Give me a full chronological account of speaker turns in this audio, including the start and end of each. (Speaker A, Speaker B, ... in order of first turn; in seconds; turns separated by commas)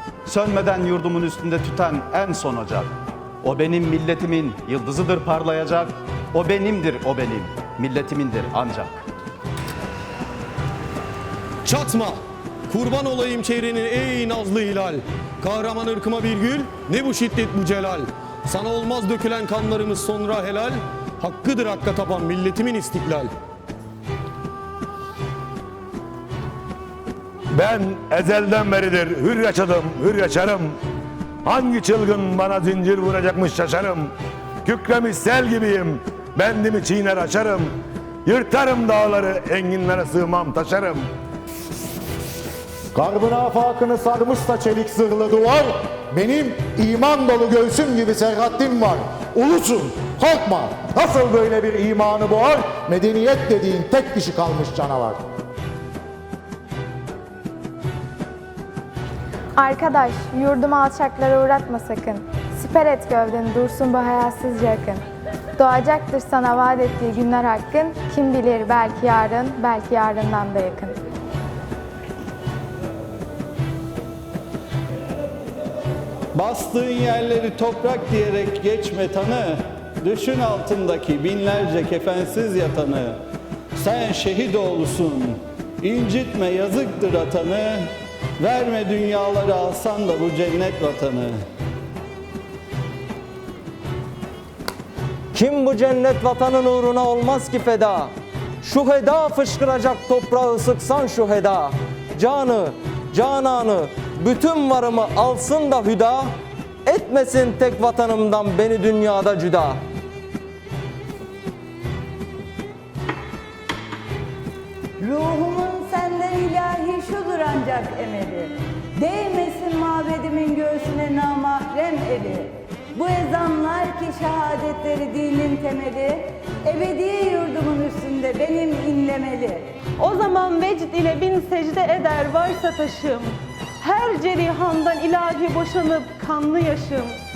Speaker A: 0.2-2.9, Speaker A: 3.4-9.0, Speaker B: 11.6-23.3, Speaker C: 27.6-30.7, Speaker C: 31.4-34.1, Speaker C: 34.6-37.7, Speaker C: 38.2-41.0, Speaker D: 42.9-55.2, Speaker E: 59.6-65.0, Speaker E: 65.6-71.0, Speaker F: 76.3-83.2, Speaker F: 83.7-91.4, Speaker G: 95.3-106.3, Speaker G: 106.8-109.8, Speaker H: 115.0-129.7, Speaker I: 130.0-137.2